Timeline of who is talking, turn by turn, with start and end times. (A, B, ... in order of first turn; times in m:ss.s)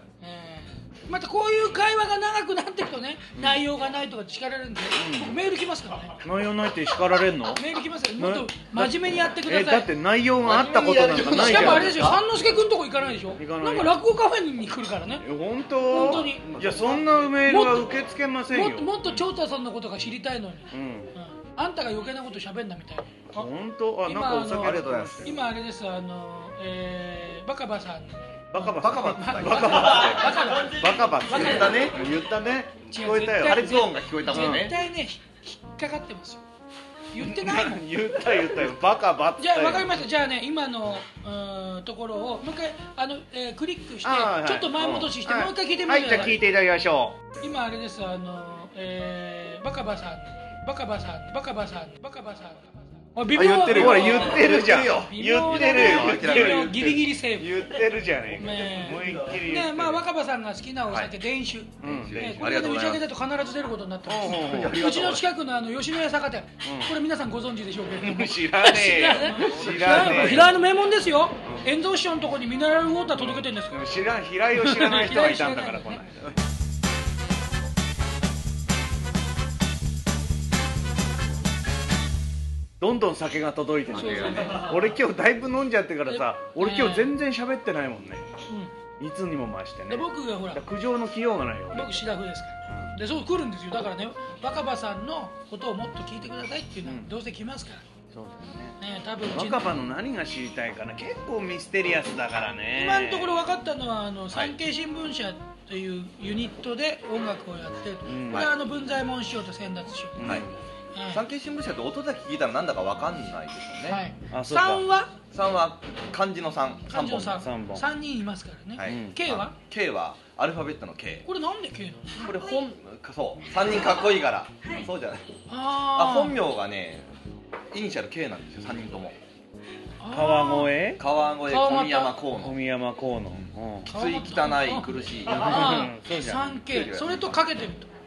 0:00.2-0:06.2 A
0:03.3-0:03.7 B
0:05.0-0:05.4 B
0:06.2-0:07.6 B
0:07.4-0:09.9 A
0:08.2-0:12.1 B
0:10.4-0:12.2 C
0:11.2-0:15.2 A
0:13.4-0:14.0 B
0:15.2-0:18.9 B
0:15.8-0:16.5 A
0:15.9-0:17.3 C
0:17.4-0:31.9 A
0:20.7-0:21.1 B
0:23.3-0:25.4 B
0:24.5-0:25.4 C
0:28.5-0:34.6 B
0:28.6-0:30.3 C
0:31.2-0:32.0 C
0:32.9-0:36.4 A
0:33.4-0:34.7 C
0:37.1-0:37.8 A
0:37.2-0:40.0 B
0:39.4-0:46.5 A
0:44.0-0:47.2 B
0:44.8-0:45.0 C
0:47.4-0:57.6 A
0:53.3-0:56.9 C
0:53.4-1:00.0 B
0:58.4-1:16.0 A
1:00.9-1:01.1 C
1:01.8-1:02.4 B
1:01.8-1:03.0 C
1:04.1-1:04.8 B
1:04.1-1:05.3 C
1:06.6-1:06.9 B
1:08.0-1:10.6 B
1:13.1-1:16.3 B
1:22.8-1:28.2 B
1:23.9-1:24.7 A
1:26.1-1:27.2 A
1:28.5-1:28.7 A
1:29.0-1:32.0 B
1:29.9-1:30.6 A
1:31.7-1:37.8 A
1:38.1-1:38.8 B
1:38.8-1:39.7 A
1:39.3-1:43.4 B
1:42.7-1:51.2 A
1:48.0-1:48.5 B
1:50.2-1:50.6 B
1:50.2-1:50.5 C
1:51.1-1:54.0 C
1:53.8-1:55.1 A
1:54.3-1:54.8 B
1:55.3-1:57.4 C
1:56.9-1:59.5 A
1:57.1-1:57.9 B
1:58.8-2:01.2 C
1:58.8-1:59.2 B
2:01.2-2:02.1 A
2:02.1-2:07.1 C
2:05.5-2:06.4 A
2:07.7-2:09.2 C
2:10.0-2:10.8 A
2:10.1-2:11.0 B
2:11.0-2:12.6 C
2:11.4-2:12.2 A
2:12.4-2:13.9 B
2:13.8-2:17.4 C
2:13.9-2:17.9 A
2:15.3-2:16.4 B